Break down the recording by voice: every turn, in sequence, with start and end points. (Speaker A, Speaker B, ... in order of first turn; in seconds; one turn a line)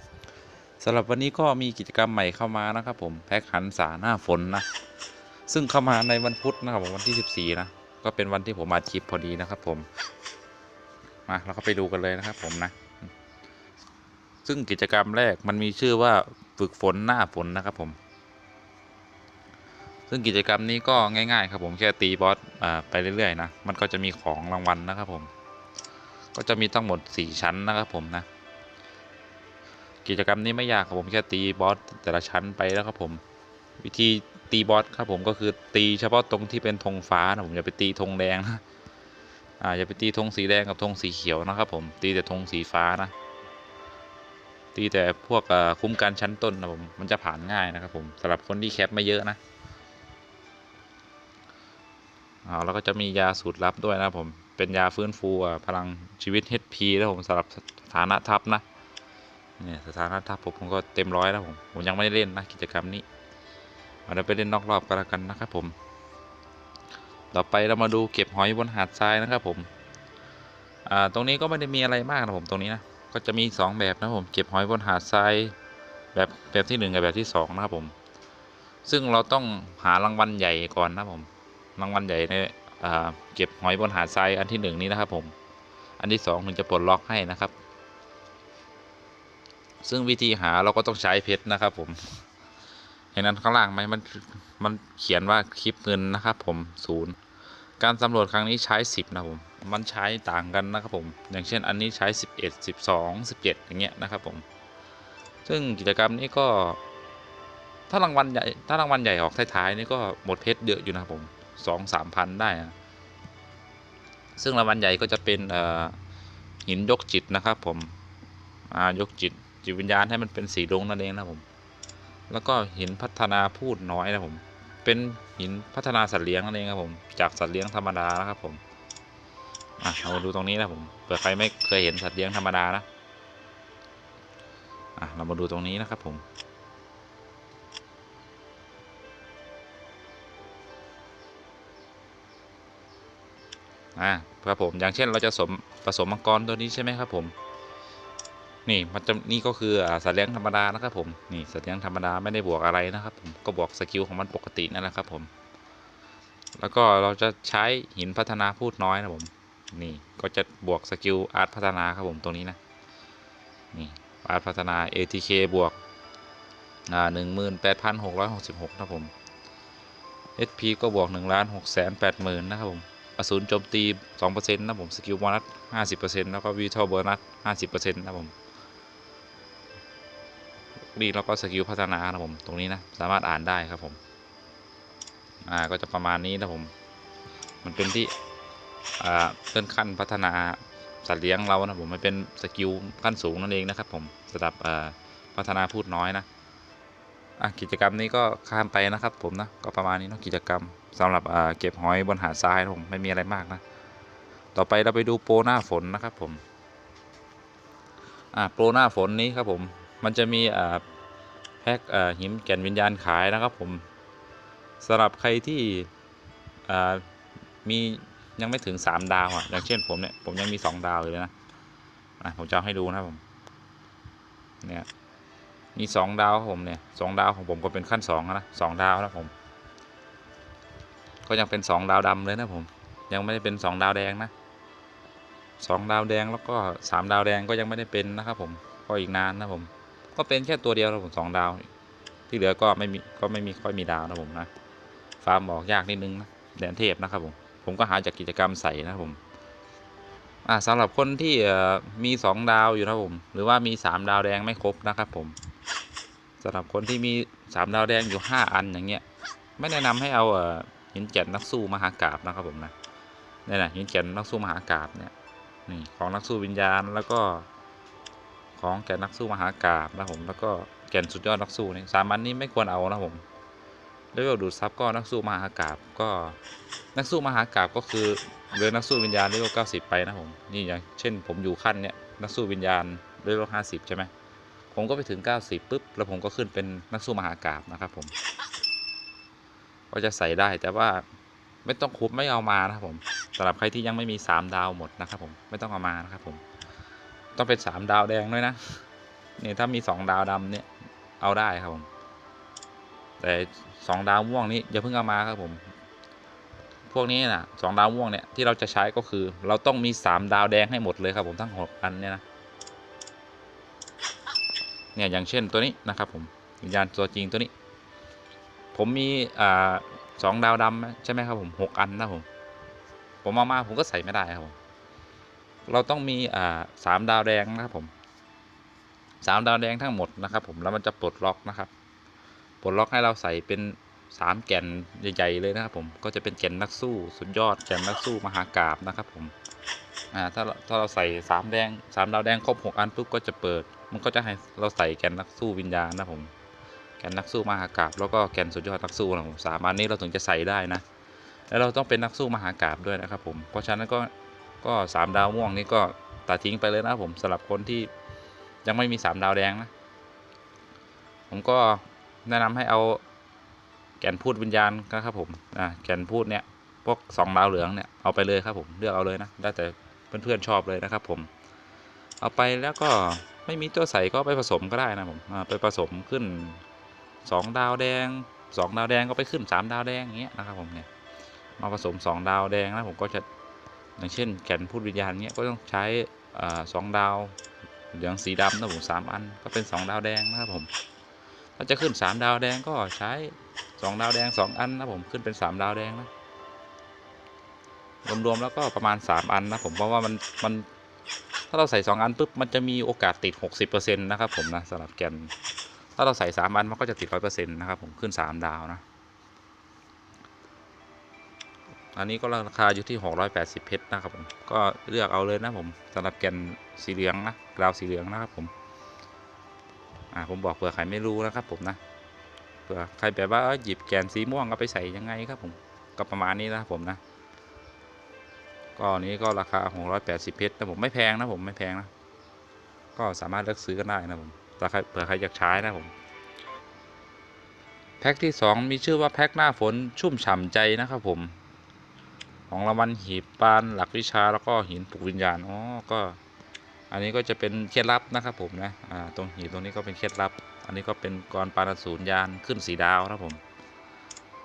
Speaker A: 0.8-4.7
Speaker A: 5.5-9.9
Speaker A: 11.3-12.8
Speaker A: 14.4-18.0
Speaker A: 20.1-25.3
Speaker A: 26.3-28.2
Speaker A: 30.0-33.2
Speaker A: 33.8-38.6
Speaker A: 39.6-43.1
Speaker A: 44.7-49.4
Speaker A: 52.4-58.6
Speaker A: 59.6-63.0
Speaker A: 64.1-65.7
Speaker A: 67.3-69.7
Speaker A: 70.8-75.5
Speaker A: 76.1-77.9
Speaker A: 78.8-85.3
Speaker A: 86.0-87.5
Speaker A: 89.8-92.0
Speaker A: 93.1-97.2
Speaker A: 97.8-104.4
Speaker A: 105.5-106.8
Speaker A: 107.9-112.7
Speaker A: 114.4-115.9
Speaker A: 116.7-117.9
Speaker A: 118.7-121.4
Speaker A: 122.3-128.6
Speaker A: 129.8-132.8
Speaker A: 135.0-136.2
Speaker A: 143.9-147.3
Speaker A: 148.7-155.3
Speaker A: 156.6-162.6
Speaker A: 163.7-165.8
Speaker A: 166.9-169.1
Speaker A: 170.4-178.3
Speaker A: 180.9-184.0
Speaker A: 185.4-186.7
Speaker A: 187.6-188.1
Speaker A: 189.0-196.2
Speaker A: 197.4-203.6
Speaker A: 204.5-206.4
Speaker A: 208.3-210.8
Speaker A: 211.6-213.8
Speaker A: 214.8-215.9
Speaker A: 216.7-217.0
Speaker A: 217.6-221.3
Speaker A: 222.2-223.2
Speaker A: 225.7-229.3
Speaker A: 231.2-234.3
Speaker A: 235.6-241.7
Speaker A: 242.3-244.5
Speaker A: 245.2-249.2
Speaker A: 250.4-255.3
Speaker A: 256.4-259.0
Speaker A: 259.6-262.7
Speaker A: 263.4-265.1
Speaker A: 265.7-267.4
Speaker A: 268.6-273.2
Speaker A: 274.1-276.4
Speaker A: 276.9-284.1
Speaker A: 284.7-288.1
Speaker A: 289.9-291.0
Speaker A: 291.6-296.4
Speaker A: 297.4-298.8
Speaker A: 299.4-300.7
Speaker A: 301.2-301.9
Speaker A: 303.2-305.7
Speaker A: 306.9-312.2
Speaker A: 314.9-317.5
Speaker A: 318.7-322.2
Speaker A: 323.2-324.6
Speaker A: 325.6-327.9
Speaker A: 329.2-331.7
Speaker A: 332.6-339.3
Speaker A: 340.1-346.3
Speaker A: 347.0-350.8
Speaker A: 351.5-354.1
Speaker A: 354.6-357.9
Speaker A: 358.6-359.7
Speaker A: 361.3-363.0
Speaker A: 364.0-371.3
Speaker A: 372.2-376.6
Speaker A: 377.2-380.9
Speaker A: 381.6-383.2
Speaker A: 384.0-387.4
Speaker A: 387.9-390.7
Speaker A: 391.6-396.1
Speaker A: 398.0-400.7
Speaker A: 401.5-405.3
Speaker A: 406.0-408.8
Speaker A: 411.9-418.5
Speaker A: 420.1-421.8
Speaker A: 422.7-427.0
Speaker A: 428.8-431.9
Speaker A: 432.9-435.9
Speaker A: 438.0-441.4
Speaker A: 442.5-446.2
Speaker A: 446.9-453.4